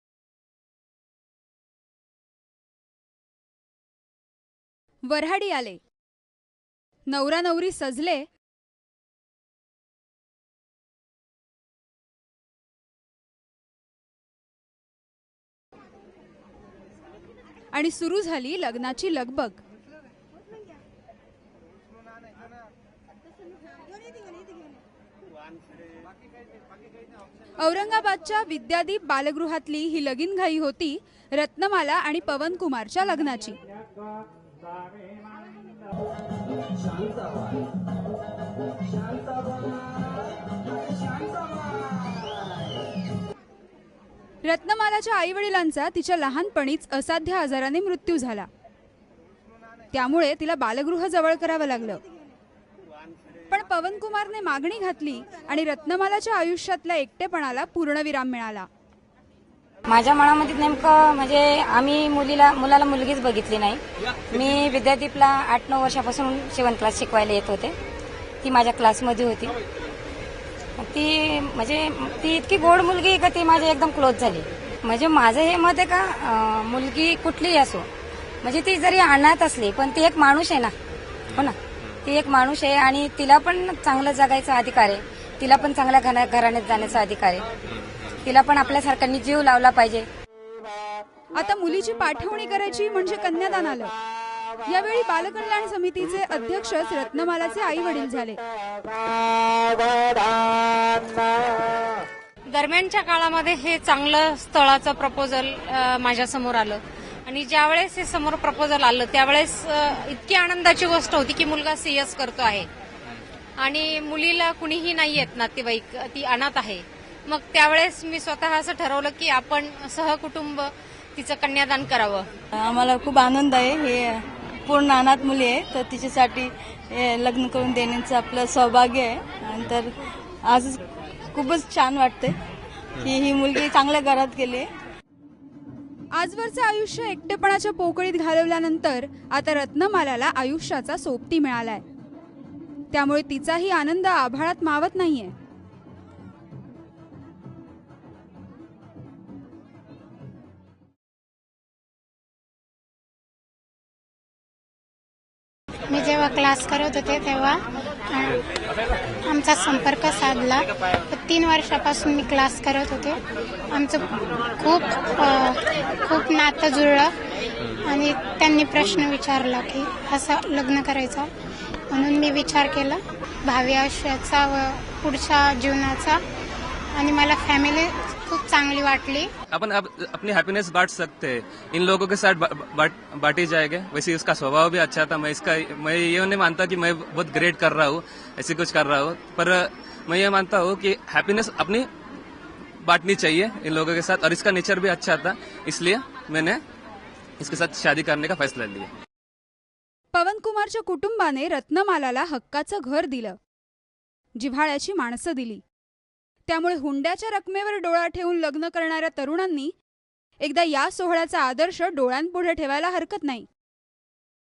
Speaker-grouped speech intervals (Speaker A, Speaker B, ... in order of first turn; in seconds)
Speaker A: 5.1-5.8, 7.1-8.2, 17.7-19.6, 27.6-33.6, 44.4-48.5, 49.9-52.0, 53.5-58.7, 91.3-93.9, 94.7-98.4, 136.2-141.8, 142.9-145.3, 200.1-203.4, 204.4-205.6, 206.5-209.7, 210.4-213.5
Speaker B: 59.9-63.8, 64.4-67.7, 68.5-69.5, 70.8-77.8, 78.5-80.7, 82.1-87.4, 88.3-90.0
Speaker C: 102.5-112.7, 113.6-122.3
Speaker D: 122.5-129.9, 130.5-130.8, 131.3-132.4, 133.0-134.7
Speaker E: 155.9-158.4, 159.3-163.2, 163.7-167.1, 167.9-171.3, 171.9-176.2, 176.9-179.3
Speaker F: 179.5-191.9, 192.8-196.6, 197.4-198.9